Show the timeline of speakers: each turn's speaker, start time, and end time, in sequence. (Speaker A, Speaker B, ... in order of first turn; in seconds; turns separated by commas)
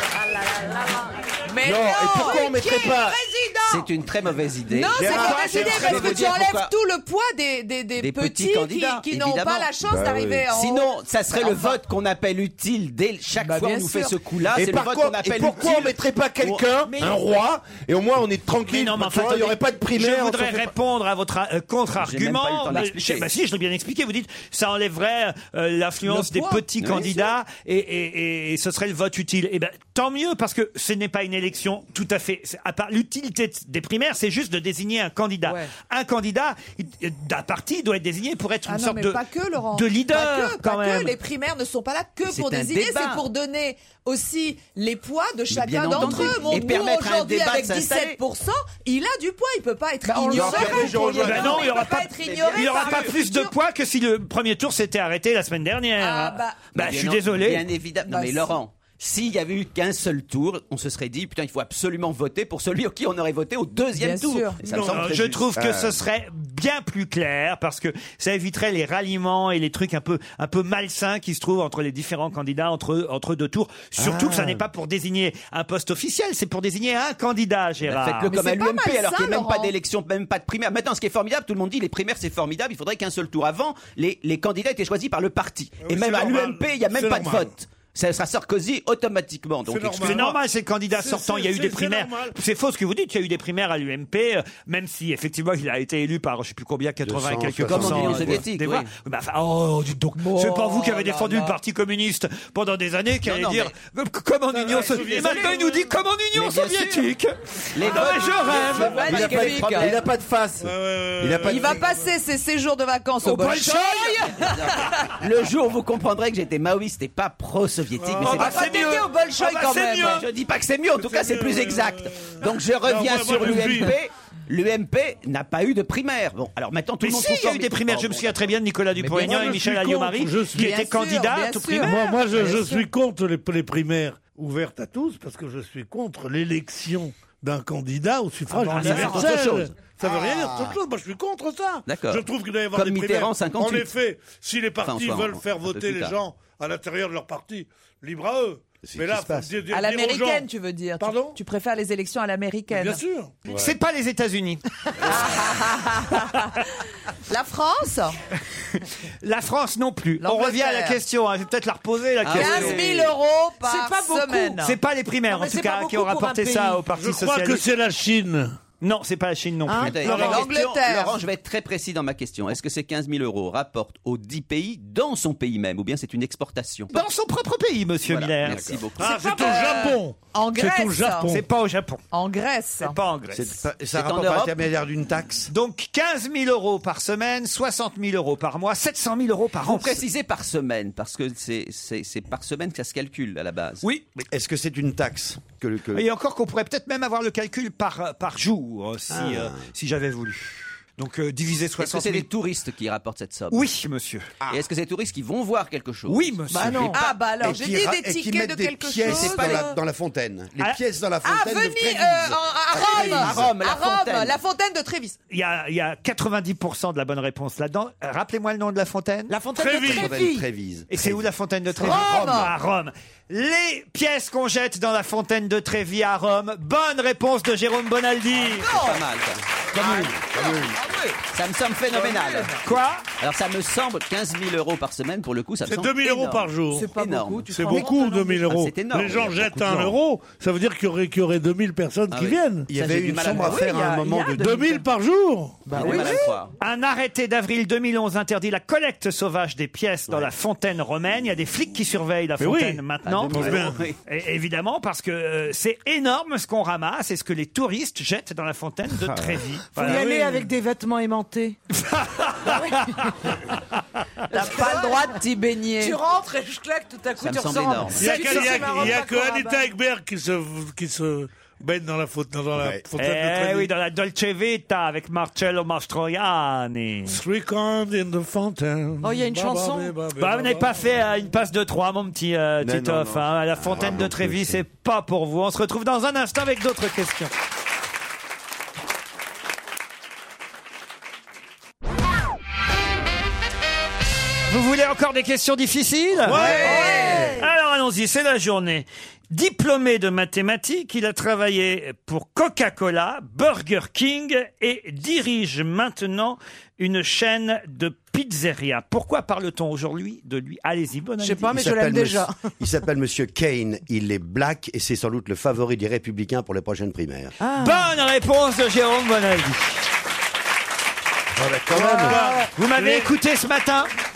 Speaker A: 1.5-3.2, Speaker B: 1.6-3.2, Speaker C: 2.6-3.8, Speaker D: 3.6-6.7, Speaker A: 4.7-11.8, Speaker B: 4.9-6.3, Speaker D: 8.0-9.8, Speaker B: 9.8-10.5, Speaker D: 10.5-16.7, Speaker A: 13.3-14.2, Speaker B: 14.5-20.7, Speaker E: 18.7-39.2, Speaker D: 21.9-23.3, Speaker D: 26.7-27.3, Speaker C: 35.4-35.7, Speaker A: 38.6-53.5, Speaker E: 39.7-41.2, Speaker D: 42.2-43.3, Speaker D: 45.5-48.2, Speaker B: 50.1-51.7, Speaker D: 50.3-53.2, Speaker E: 51.0-57.6, Speaker A: 56.0-56.7, Speaker D: 56.7-65.4, Speaker A: 58.0-58.5, Speaker A: 64.0-64.6, Speaker F: 64.6-65.3, Speaker E: 64.8-78.3, Speaker B: 65.5-66.0, Speaker B: 74.0-74.6, Speaker D: 77.8-90.3, Speaker A: 78.3-79.7, Speaker F: 85.8-87.5, Speaker F: 89.7-90.4, Speaker E: 90.0-109.2, Speaker F: 90.9-92.3, Speaker B: 97.0-98.4, Speaker D: 97.6-98.9, Speaker A: 100.4-101.4, Speaker D: 103.2-103.8, Speaker F: 104.5-105.9, Speaker D: 106.3-107.1, Speaker D: 107.7-110.0, Speaker F: 108.5-108.9, Speaker A: 108.8-110.0, Speaker B: 109.0-111.8, Speaker F: 110.6-112.1, Speaker A: 111.4-115.0, Speaker E: 113.2-114.4, Speaker D: 114.5-119.1, Speaker F: 118.0-118.5, Speaker E: 118.2-120.3, Speaker A: 118.3-120.2, Speaker D: 119.9-128.5, Speaker F: 121.0-123.9, Speaker E: 127.0-132.0, Speaker F: 129.0-130.8, Speaker A: 130.6-132.8, Speaker F: 131.8-150.5, Speaker E: 138.6-139.3, Speaker D: 138.6-139.8, Speaker G: 140.3-140.7, Speaker D: 141.9-143.9, Speaker D: 144.8-146.2, Speaker G: 148.8-149.6, Speaker A: 149.7-153.0, Speaker F: 151.0-151.4, Speaker F: 152.7-153.4, Speaker E: 153.5-154.6, Speaker A: 155.0-156.6, Speaker A: 157.3-158.2, Speaker E: 158.7-162.9, Speaker A: 160.2-161.0, Speaker D: 162.2-163.2, Speaker A: 162.3-164.8, Speaker C: 163.6-164.6, Speaker E: 164.6-167.6, Speaker C: 165.3-166.8, Speaker F: 166.9-168.6, Speaker E: 168.8-170.2, Speaker C: 169.7-170.4, Speaker D: 169.8-177.0, Speaker F: 170.0-170.5, Speaker A: 170.1-171.2, Speaker E: 176.9-178.8, Speaker D: 178.0-179.5, Speaker F: 179.0-181.4, Speaker A: 179.0-181.3, Speaker E: 181.3-182.0, Speaker A: 182.1-182.9, Speaker E: 182.8-183.6, Speaker G: 183.3-185.5, Speaker D: 183.9-184.6, Speaker E: 185.5-190.0, Speaker D: 189.6-193.9, Speaker E: 193.8-194.3, Speaker G: 194.3-196.0, Speaker E: 195.9-202.3, Speaker G: 199.1-199.6, Speaker D: 201.8-203.7, Speaker E: 203.5-204.3, Speaker D: 204.5-206.3, Speaker E: 206.1-207.0, Speaker C: 206.5-207.0, Speaker A: 206.9-209.8, Speaker G: 207.4-213.5, Speaker D: 209.0-209.7, Speaker A: 211.2-215.2, Speaker D: 212.8-214.4, Speaker E: 215.3-219.3, Speaker C: 219.3-220.4, Speaker F: 219.6-220.2, Speaker G: 219.8-221.2, Speaker E: 220.9-228.7, Speaker A: 221.8-222.5, Speaker G: 222.0-222.4, Speaker D: 228.6-229.4, Speaker A: 228.7-229.0, Speaker G: 229.7-230.8, Speaker A: 230.3-231.2, Speaker D: 231.2-239.9, Speaker A: 231.9-232.6, Speaker E: 232.6-233.1, Speaker F: 235.7-236.9, Speaker A: 236.7-238.5, Speaker F: 237.5-242.7, Speaker D: 242.1-244.8, Speaker G: 242.7-244.6, Speaker F: 244.3-246.0, Speaker C: 245.7-246.3, Speaker D: 245.7-246.5, Speaker E: 246.6-260.3, Speaker F: 252.4-253.8, Speaker D: 253.0-254.0, Speaker C: 259.7-261.6, Speaker F: 259.8-260.4, Speaker E: 261.8-263.3, Speaker C: 262.4-263.1, Speaker C: 264.3-265.2, Speaker A: 264.3-266.0, Speaker C: 265.8-269.7, Speaker D: 267.2-268.6, Speaker F: 267.9-273.7, Speaker E: 268.0-268.8, Speaker E: 273.0-277.2, Speaker F: 277.1-280.9, Speaker C: 279.0-279.9, Speaker E: 280.2-287.3, Speaker B: 282.6-284.6, Speaker E: 294.5-311.6, Speaker F: 296.2-297.3, Speaker C: 296.3-297.5, Speaker A: 296.7-297.3, Speaker C: 311.2-312.5, Speaker G: 311.5-317.4, Speaker C: 317.4-317.9, Speaker E: 317.6-319.8, Speaker B: 321.4-322.2, Speaker G: 321.5-321.8, Speaker F: 321.7-323.1, Speaker C: 321.8-322.5, Speaker E: 322.6-323.9